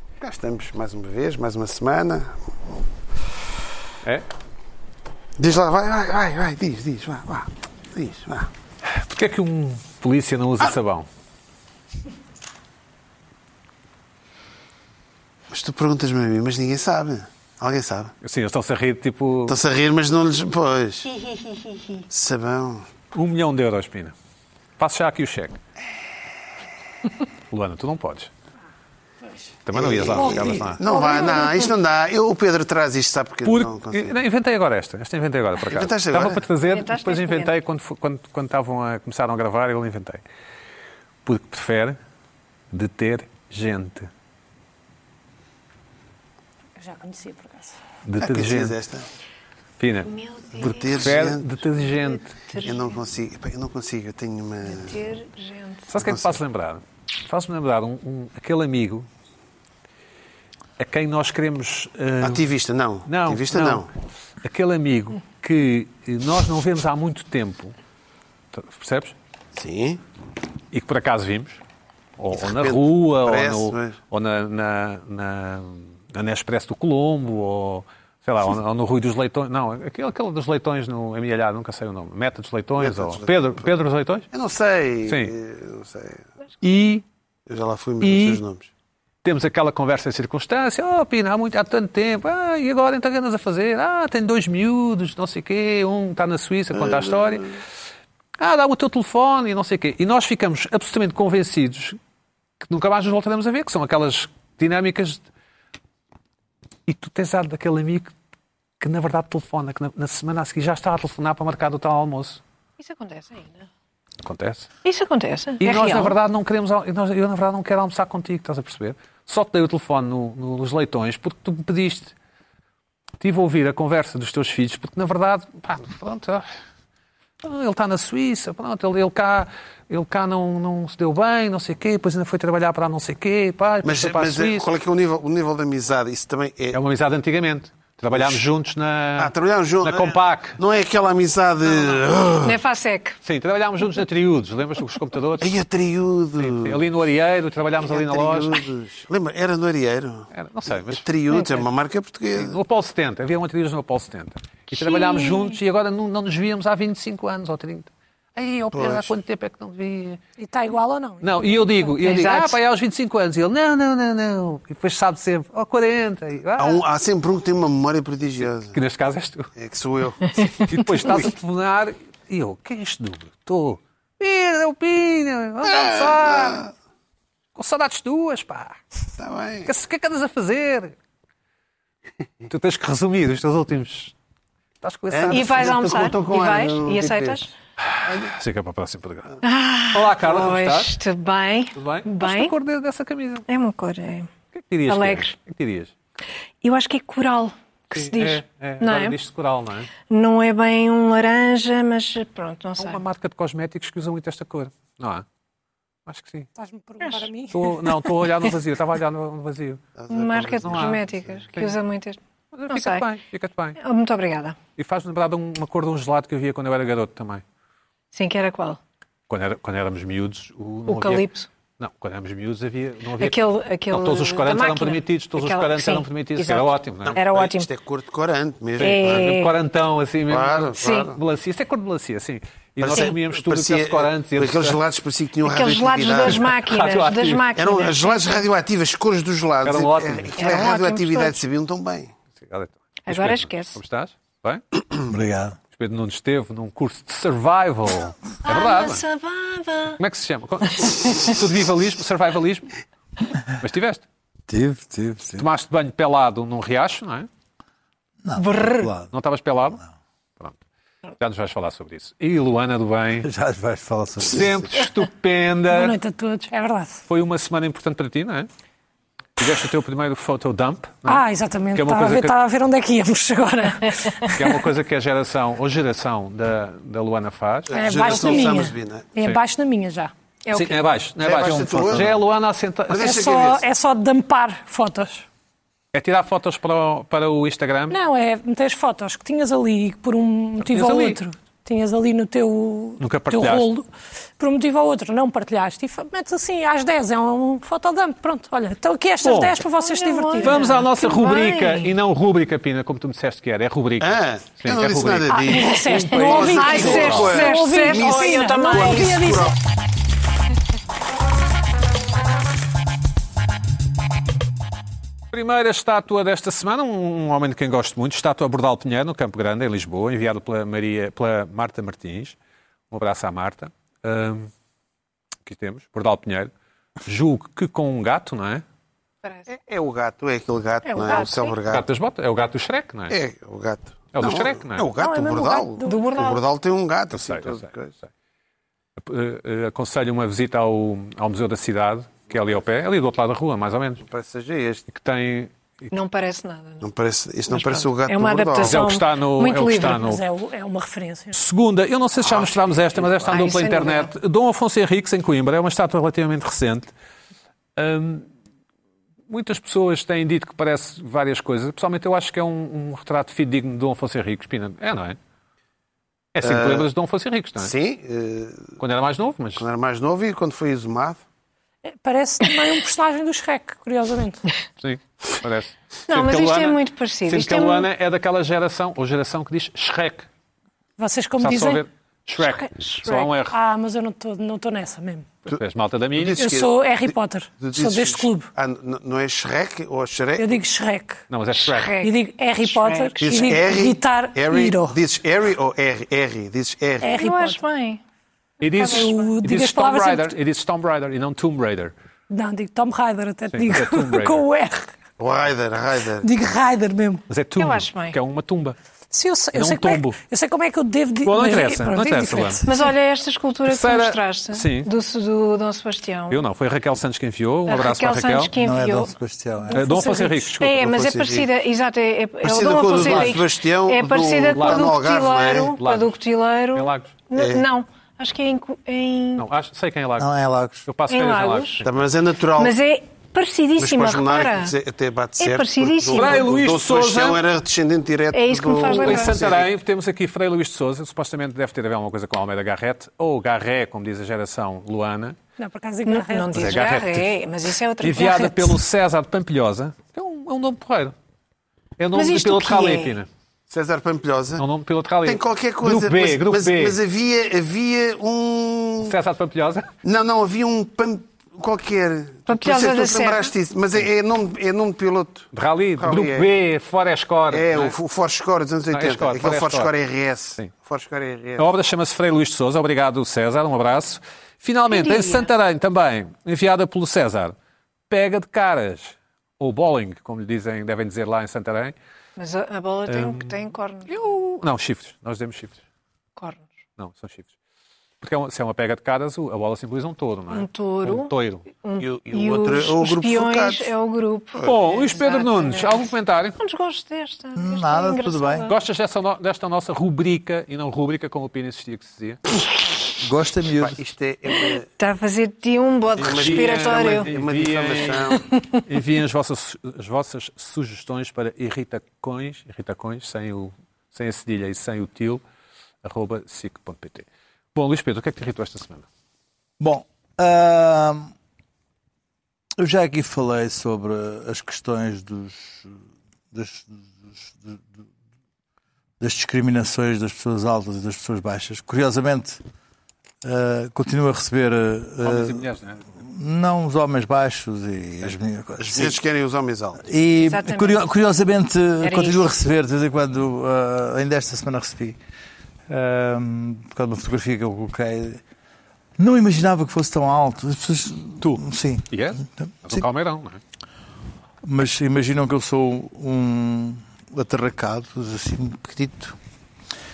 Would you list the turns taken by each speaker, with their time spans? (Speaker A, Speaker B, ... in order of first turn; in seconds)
Speaker A: 0.2-2.4, 5.4-8.5, 15.5-18.1, 19.5-21.1, 22.1-22.9, 29.7-34.1, 35.7-36.5, 48.2-49.0, 50.6-51.5, 52.6-55.0, 56.0-56.4, 62.2-63.9, 69.6-70.0, 72.4-74.0, 82.8-83.2, 84.3-86.2, 87.5-88.7, 96.8-97.4, 133.8-136.8, 138.1-138.4, 139.2-142.6, 145.4-146.8, 147.8-150.3, 150.9-152.6, 158.7-159.1, 166.6-168.8, 169.6-171.3, 175.7-176.7, 179.2-179.7, 185.1-187.4, 210.0-211.4, 227.1-229.3, 230.3-231.2, 232.8-236.6, 237.6-242.1, 277.7-279.1, 281.2-282.1, 282.9-283.6, 304.0-309.6, 329.5-331.9, 333.1-337.9, 344.1-344.9, 346.8-348.9, 352.2-353.3, 366.4-366.9, 367.6-368.7, 369.6-371.2, 386.1-390.6, 393.2-397.1, 405.2-406.3, 420.8-421.5, 422.4-425.8, 427.4-427.6, 431.8-432.8, 433.8-439.7, 453.7-454.6, 455.2-459.1, 460.0-465.5, 466.0-466.5, 467.5-471.6, 492.0-493.9, 494.5-495.1, 503.8-504.9, 506.2-508.5, 538.8-540.1
Speaker B: 8.9-11.1, 18.2-19.6, 23.1-24.1, 24.8-25.6, 27.5-28.3, 29.6-30.8, 33.5-40.2, 41.2-42.0, 42.7-44.1, 48.0-48.7, 49.8-50.1, 50.9-52.3, 55.9-59.1, 60.8-62.5, 63.1-63.8, 64.4-67.8, 68.5-69.1, 70.7-71.6, 72.2-84.3, 85.1-85.3, 86.6-87.0, 88.0-88.4, 89.2-97.5, 98.4-102.0, 102.6-105.3, 106.9-108.1, 108.8-112.4, 114.2-114.7, 115.6-122.1, 123.2-126.5, 127.4-134.7, 136.7-140.6, 143.2-145.6, 146.4-148.6, 150.3-151.6, 152.3-160.2, 161.2-166.8, 168.7-169.5, 170.7-176.7, 177.6-178.8, 179.7-181.0, 182.5-184.1, 184.8-185.8, 187.8-189.4, 189.9-191.0, 191.8-193.5, 194.5-195.9, 197.9-199.9, 202.8-205.2, 206.1-206.5, 207.5-209.8, 210.6-211.8, 212.5-213.8, 214.8-217.4, 219.3-221.3, 221.8-223.4, 223.9-227.2, 228.8-234.8, 236.2-237.4, 239.6-240.5, 242.3-244.6, 245.7-249.0, 250.0-252.7, 253.6-254.0, 255.4-257.3, 259.1-259.8, 261.2-263.3, 264.2-265.9, 267.1-268.5, 269.4-271.2, 271.8-272.4, 274.3-277.9, 280.5-283.3, 285.9-287.9, 290.6-291.2, 293.0-293.7, 299.2-299.6, 300.4-307.3, 315.3-322.4, 322.9-324.5, 325.4-326.5, 327.1-328.6, 331.1-333.2, 334.1-334.9, 337.1-338.0, 339.0-344.1, 344.9-345.9, 348.6-350.2, 351.3-356.9, 357.8-358.3, 359.3-365.2, 366.3-367.7, 368.8-369.7, 374.8-380.3, 381.4-383.6, 385.5-386.5, 391.3-392.0, 398.6-401.9, 403.5-404.4, 407.3-408.8, 409.5-410.2, 411.2-412.7, 413.7-414.9, 416.3-418.5, 419.7-420.9, 423.0-423.3, 424.5-424.9, 425.8-426.1, 426.7-427.1, 429.4-430.3, 430.9-431.9, 436.1-437.4, 438.9-445.4, 446.5-447.4, 448.0-451.1, 452.0-453.3, 454.6-457.0, 459.0-459.9, 465.5-467.9, 468.9-469.9, 471.6-477.6, 478.1-481.9, 483.1-483.5, 484.1-485.8, 487.0-487.5, 488.2-491.7, 494.6-496.6, 498.7-502.4, 506.2-515.4, 516.0-519.0, 535.2-536.0, 551.4-553.6
Speaker C: 30.2-30.5, 46.8-47.8, 160.4-161.9, 206.6-207.7, 265.7-267.0, 271.1-274.6, 277.7-280.1, 282.9-285.2, 287.9-293.9, 294.4-300.9, 305.3-309.5, 335.0-336.4, 349.6-351.4, 371.8-374.4, 381.0-381.8, 383.5-385.3, 386.4-388.5, 390.4-391.2, 392.0-395.0, 397.0-397.6, 398.8-400.4, 402.3-404.9, 406.2-407.2, 409.1-412.8, 445.6-446.8
Speaker D: 30.9-31.6, 36.7-37.5, 50.1-50.9, 52.3-53.0, 54.6-55.9, 112.8-113.7, 114.8-116.1, 142.4-143.2, 154.7-155.6, 162.0-162.6, 185.3-187.5, 189.4-192.5, 193.5-194.3, 194.9-195.3, 196.6-199.2, 200.1-203.0, 210.1-212.2, 212.7-213.1, 213.8-214.6, 218.1-218.8, 220.9-221.5, 223.2-227.7, 228.8-229.5, 230.8-231.1, 235.4-238.4, 240.4-241.4, 243.1-243.8, 248.4-250.0, 250.8-251.3, 258.4-258.9, 280.5-280.8, 299.8-301.9, 306.3-309.3, 330.9-331.6, 335.8-336.4, 345.9-346.9, 347.5-350.1, 353.3-354.1, 376.1-377.9, 382.4-383.3, 391.6-393.2, 397.1-398.0, 398.8-399.4, 407.6-408.2, 412.6-416.4, 417.7-419.1, 419.7-429.4, 431.1-431.8, 432.6-434.7, 435.4-436.5, 438.3-439.4, 446.1-448.8, 452.1-453.2, 462.5-463.5, 474.9-475.5, 482.4-484.2, 486.4-486.7, 490.5-498.7, 505.0-507.3, 540.4-541.0, 542.0-542.4
Speaker E: 245.1-245.6, 254.5-255.5, 258.2-259.1, 263.2-264.5, 281.4-282.1, 418.6-419.9, 430.2-430.9, 497.6-498.7, 503.2-504.0, 519.8-521.3, 522.8-526.0, 526.5-527.8, 529.2-532.6, 533.4-535.6, 536.2-539.2, 540.0-545.2, 545.9-548.4, 549.2-553.0, 554.6-559.4